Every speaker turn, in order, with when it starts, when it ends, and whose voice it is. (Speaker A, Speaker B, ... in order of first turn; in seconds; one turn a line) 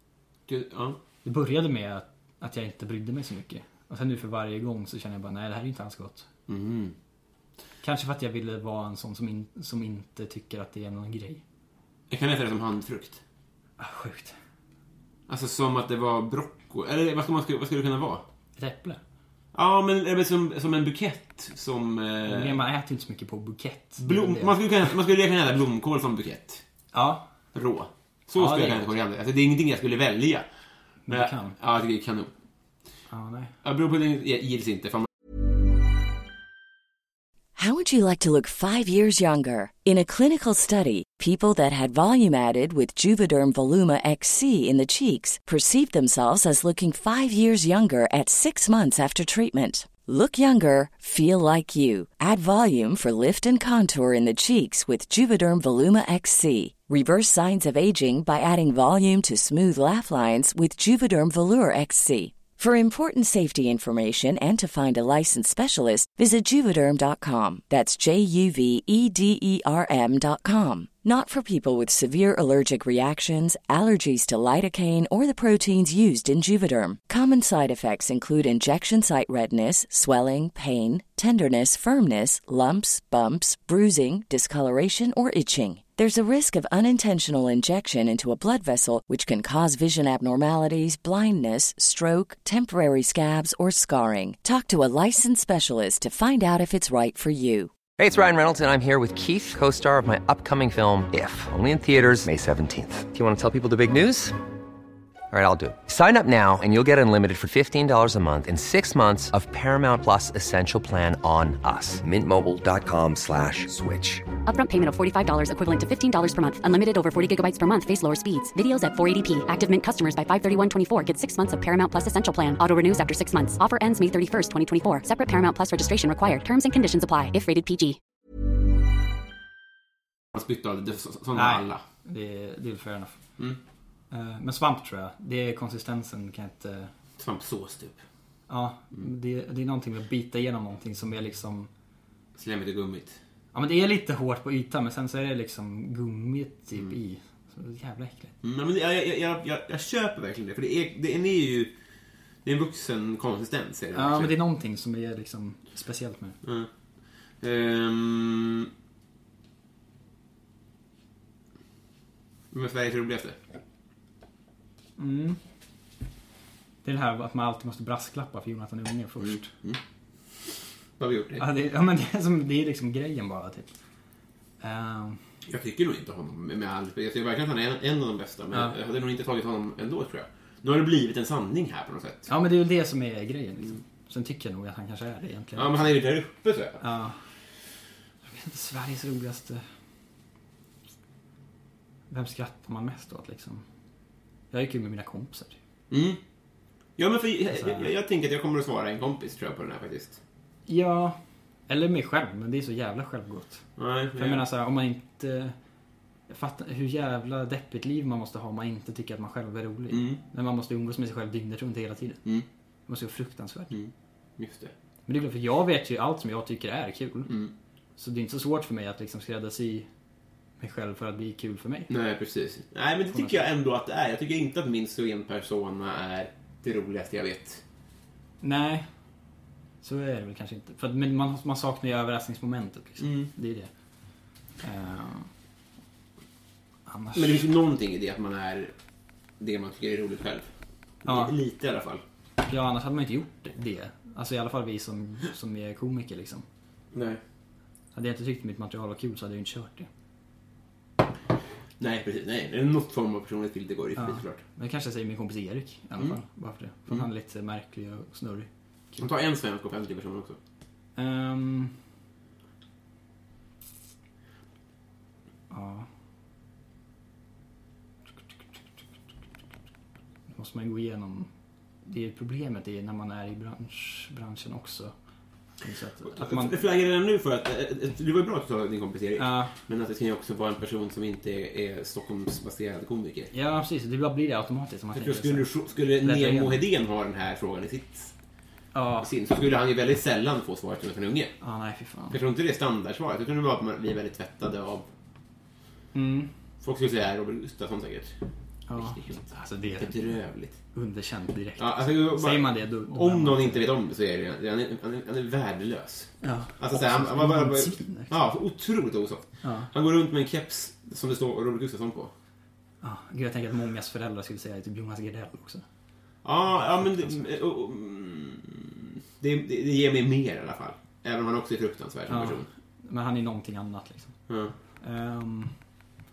Speaker A: 0.5-1.0
Speaker B: 1.2-6.3
Speaker A: 6.5-6.9
Speaker B: 7.8-11.4
Speaker A: 12.1-13.2
Speaker B: 13.8-14.3
Speaker A: 15.3-18.2
Speaker B: 18.6-19.0
Speaker A: 19.5-22.6
Speaker B: 22.2-24.6
Speaker A: 24.0-26.6
Speaker B: 26.9-27.2
Speaker A: 27.5-30.4
Speaker B: 28.4-28.9
Speaker B: 31.1-31.5
Speaker A: 31.1-32.3
Speaker B: 33.1-33.5
Speaker A: 33.6-35.1
Speaker C: 37.5-97.7
Speaker D: 98.0-104.4
Speaker D: 105.3-114.3
Speaker E: 114.4-128.0
Speaker A: 130.3-131.8
Speaker B: 131.3-133.2
Speaker B: 134.1-136.9
Speaker A: 137.2-138.0
Speaker B: 138.5-141.7
Speaker A: 142.3-143.2
Speaker B: 143.5-148.3
Speaker A: 148.4-151.7
Speaker A: 152.4-154.4
Speaker B: 153.9-156.4
Speaker A: 156.4-156.7
Speaker A: 157.4-158.7
Speaker A: 162.5-163.4
Speaker B: 165.0-165.4
Speaker B: 166.8-169.5
Speaker A: 169.2-169.8
Speaker A: 171.0-171.4
Speaker B: 171.4-173.7
Speaker B: 174.6-175.2
Speaker A: 175.5-182.3
Speaker B: 182.3-185.9
Speaker A: 185.6-186.8
Speaker B: 186.8-187.2
Speaker B: 188.2-189.7
Speaker B: 192.1-193.6
Speaker B: 194.5-195.6
Speaker A: 195.9-196.2
Speaker A: 197.0-200.2
Speaker B: 197.5-197.9
Speaker B: 200.7-201.2
Speaker B: 201.7-203.6
Speaker A: 203.8-204.4
Speaker B: 204.2-205.5
Speaker B: 206.3-212.2
Speaker A: 209.9-210.2
Speaker B: 212.9-213.8
Speaker A: 213.7-214.7
Speaker B: 215.1-217.3
Speaker A: 217.3-217.5
Speaker B: 218.0-219.9
Speaker B: 220.6-221.9
Speaker A: 221.9-227.6
Speaker B: 223.1-223.4
Speaker B: 228.4-228.9
Speaker B: 229.8-233.7
Speaker A: 233.0-233.3
Speaker B: 234.6-235.3
Speaker B: 236.9-237.4
Speaker A: 237.1-238.7
Speaker A: 239.4-240.5
Speaker A: 241.0-242.0
Speaker B: 241.0-241.3
Speaker B: 242.4-246.4
Speaker A: 246.9-247.2
Speaker B: 247.9-249.9
Speaker A: 251.8-254.4
Speaker B: 254.0-259.1
Speaker A: 259.0-260.4
Speaker B: 261.0-261.8
Speaker B: 265.5-265.9
Speaker B: 270.3-271.3
Speaker B: 271.8-274.9
Speaker B: 275.6-276.6
Speaker A: 276.0-283.3
Speaker B: 279.2-279.5
Speaker B: 283.3-285.5
Speaker A: 284.9-288.1
Speaker B: 286.0-286.6
Speaker B: 288.7-289.1
Speaker A: 289.0-291.3
Speaker B: 291.4-292.2
Speaker A: 292.1-294.9
Speaker B: 295.9-296.3
Speaker A: 296.6-298.1
Speaker B: 298.7-300.1
Speaker A: 298.7-300.6
Speaker B: 300.7-303.6
Speaker A: 301.6-312.1
Speaker B: 306.2-308.1
Speaker B: 309.4-309.7
Speaker B: 312.8-315.6
Speaker A: 316.2-322.5
Speaker B: 322.1-324.1
Speaker A: 324.3-324.5
Speaker B: 324.8-325.5